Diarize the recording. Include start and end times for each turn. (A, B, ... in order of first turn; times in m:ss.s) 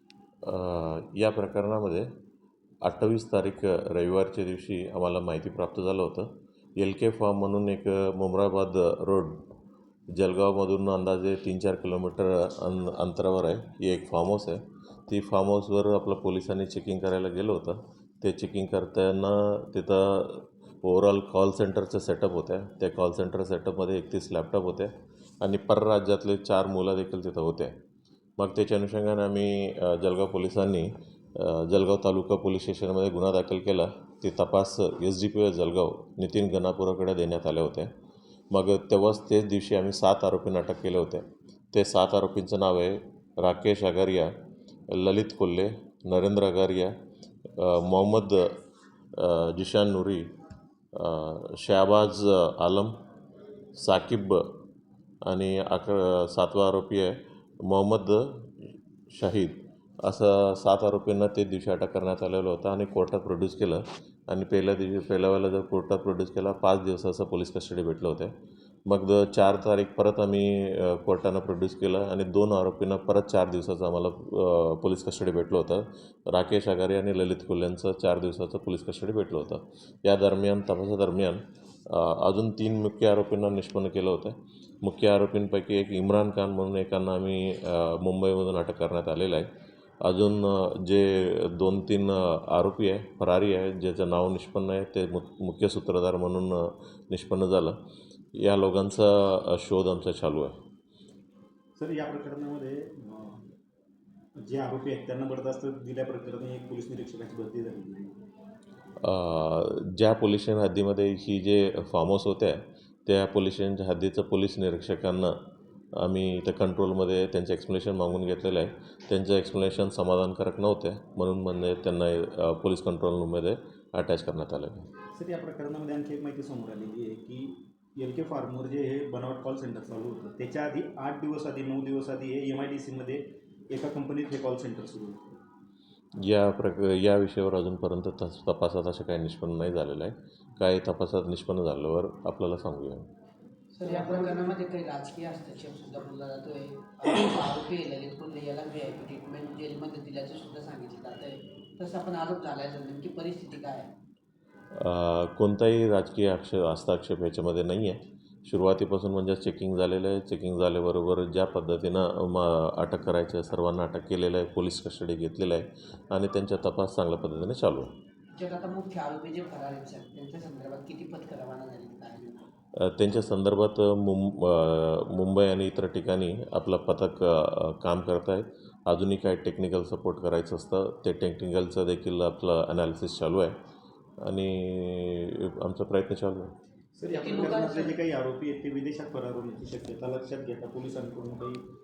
0:00.4-0:02.1 A
0:02.8-0:09.4 A
0:10.1-0:27.8 A
0:28.4-0:37.9 A
0:38.5-0:44.3 A
0:44.9-0:46.9 A
0:47.4-0:48.6 A
0:49.1-0:50.3 A
0:50.9-0:53.0 A
0:53.8-0:54.6 A
0:55.2-1:08.3 A
1:08.9-1:29.5 A
1:30.0-1:37.7 A
1:38.3-1:40.6 A
1:41.8-1:43.4 B
1:44.4-1:48.2 B
1:49.0-1:55.4 A
1:56.0-2:04.9 A
2:05.1-2:15.2 B
2:16.2-2:23.0 A
2:23.7-2:33.9 C
2:23.8-2:24.5 B
2:34.7-2:47.9 A
2:48.3-2:52.4 C
2:52.8-3:03.5 A
3:04.2-3:06.5 A
3:07.0-3:11.6 B
3:07.1-3:08.0 C